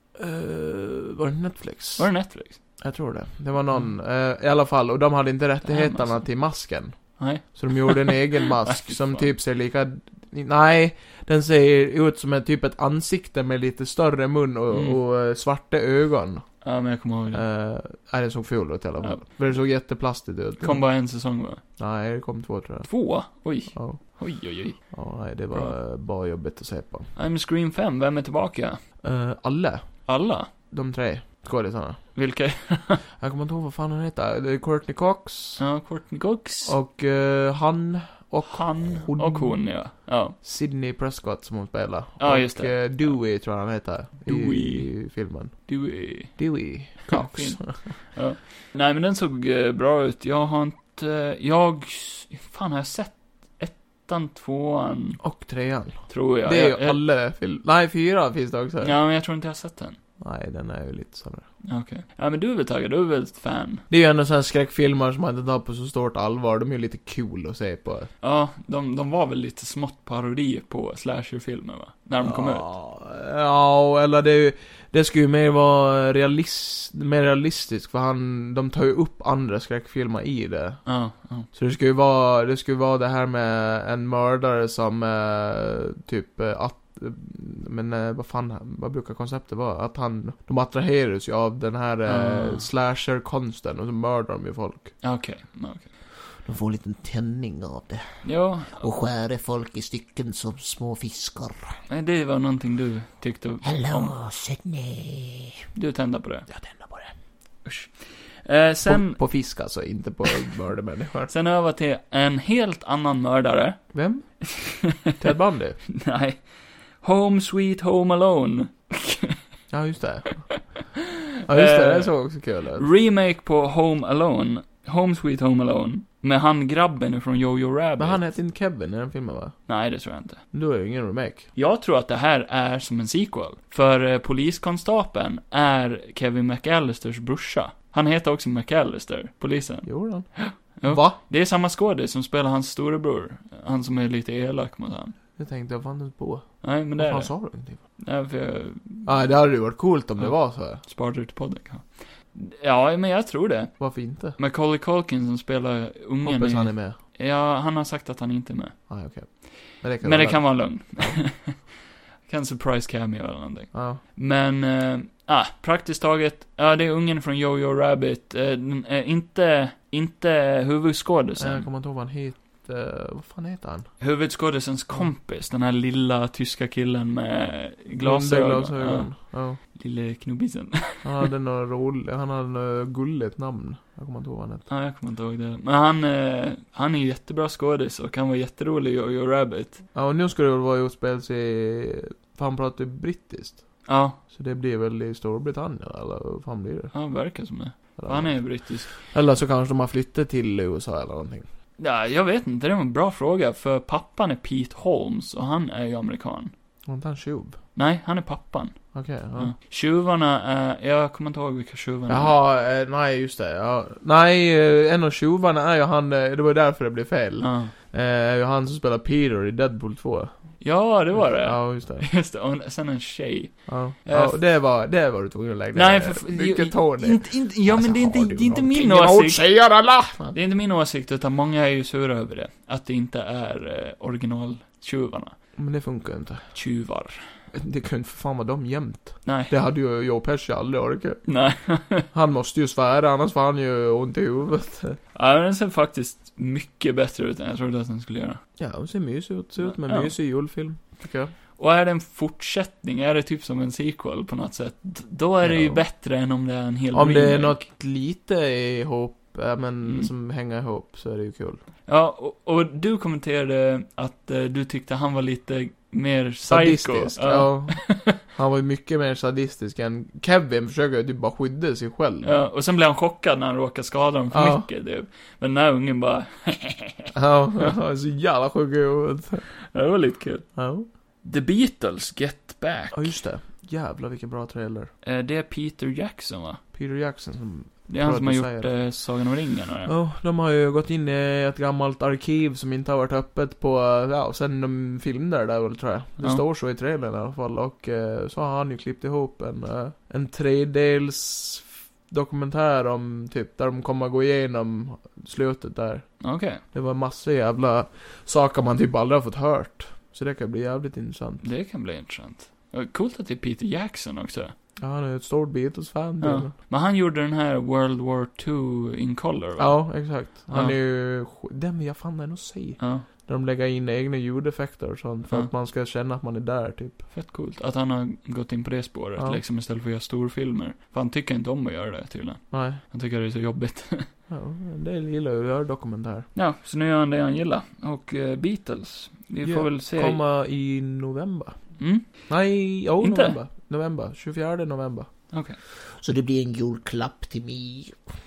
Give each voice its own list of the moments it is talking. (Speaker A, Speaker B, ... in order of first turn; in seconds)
Speaker A: 0.2-2.1, 2.8-16.5, 17.3-20.9, 21.8-22.9, 23.7-24.0, 24.9-27.1, 29.0-30.1, 30.7-32.1, 33.2-35.6, 36.6-45.7, 46.4-47.9, 55.2-59.0, 60.2-61.5, 63.9-68.1, 72.2-80.8, 81.5-95.0, 96.4-98.0, 108.8-111.3, 113.9-114.3, 115.2-115.8, 119.7-120.7, 121.5-122.9, 128.0-129.6, 130.5-131.5, 139.8-141.2, 145.4-147.8, 149.0-150.8, 153.8-154.4, 156.2-157.0, 158.9-161.2, 163.7-164.0, 171.4-173.9, 178.0-179.6, 181.0-184.7, 189.9-196.9, 198.0-201.4, 206.8-207.6, 208.9-209.5, 212.1-222.1, 223.7-230.3, 235.6-236.5, 237.5-241.2, 242.1-245.0, 248.6-251.3, 255.4-255.8, 256.9-261.6, 266.5-272.3, 274.3-274.6, 277.1-279.5, 280.6-280.9, 282.9-284.9, 286.7-288.8, 289.9-311.4, 314.8-316.5, 319.6-327.0, 332.5-332.8, 334.3-336.3, 339.4-341.6, 342.2-345.1
Speaker B: 2.0-2.6, 5.6-6.2, 7.2-9.3, 14.7-15.0, 16.6-17.4, 20.6-21.6, 22.8-24.9, 27.1-28.8, 30.1-30.5, 32.1-33.0, 35.6-36.7, 38.5-40.4, 42.2-43.2, 44.2-44.9, 45.7-55.2, 56.1-57.0, 58.8-60.0, 61.6-63.8, 68.2-72.7, 80.8-81.5, 92.0-92.7, 95.0-95.9, 98.2-98.8, 101.9-104.1, 105.7-106.5, 107.6-109.2, 111.3-115.1, 115.9-116.5, 117.0-119.4, 121.5-122.2, 122.7-128.2, 129.7-130.4, 131.5-145.1, 146.6-147.4, 148.0-149.1, 150.2-153.8, 154.3-158.8, 159.8-161.7, 162.2-171.7, 174.0-179.1, 179.7-181.3, 184.7-189.8, 193.8-194.2, 196.9-198.9, 201.8-206.5, 207.8-212.3, 217.4-217.7, 220.6-224.4, 225.7-229.5, 230.3-235.3, 236.5-237.2, 239.2-239.5, 241.2-242.1, 245.1-248.4, 249.6-250.1, 251.6-257.6, 259.8-260.1, 261.9-268.2, 272.2-277.7, 279.7-280.5, 281.2-283.1, 285.0-286.6, 287.9-289.9, 306.2-306.6, 311.4-314.5, 316.2-320.8, 322.8-323.1, 327.1-334.1, 336.3-340.2, 341.8-342.3, 343.0-343.4, 345.3-345.6
Speaker C: 96.9-97.4, 98.7-101.8, 103.6-105.6, 346.0-347.9